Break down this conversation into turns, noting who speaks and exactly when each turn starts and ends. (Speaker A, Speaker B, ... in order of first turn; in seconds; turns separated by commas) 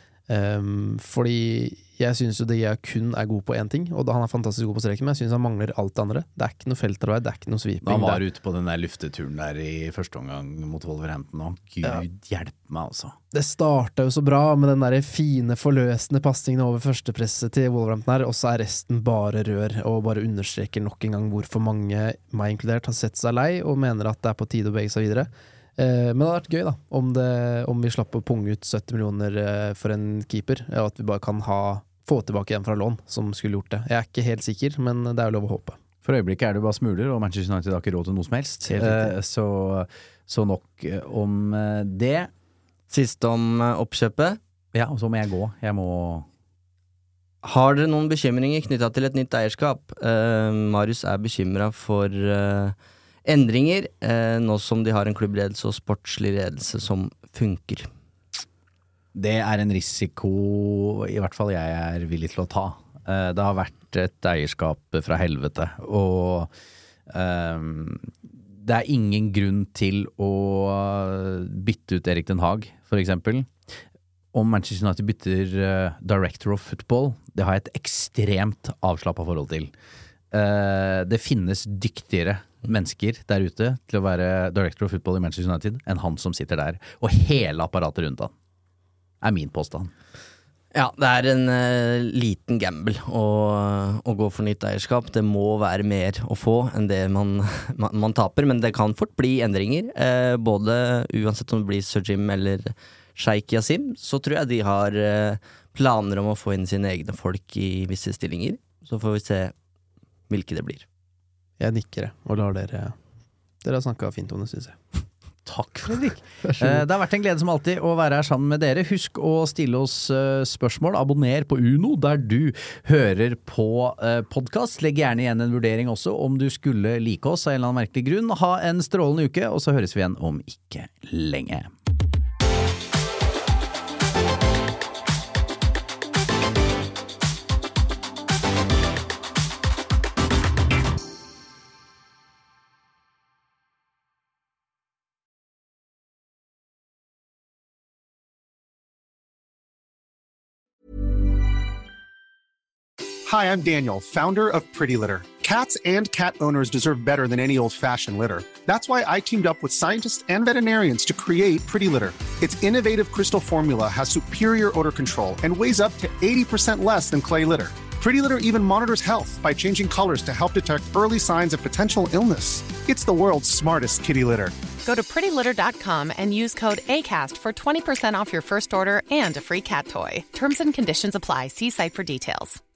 Speaker A: 0.3-8.2, Speaker B: 7.8-13.2, Speaker A: 13.3-35.8, Speaker B: 36.0-42.3, Speaker A: 38.7-39.1, Speaker C: 42.9-44.4, Speaker B: 44.7-46.3, Speaker C: 47.4-57.9, Speaker B: 59.1-66.5, Speaker B: 67.1-73.5, Speaker B: 74.3-79.7, Speaker B: 80.3-88.3, Speaker B: 89.2-89.9, Speaker C: 90.7-109.5, Speaker C: 110.3-110.8, Speaker A: 111.6-113.0, Speaker A: 113.6-114.8, Speaker B: 115.5-131.7, Speaker A: 116.5-116.8, Speaker D: 153.3-174.6, Speaker E: 174.8-182.6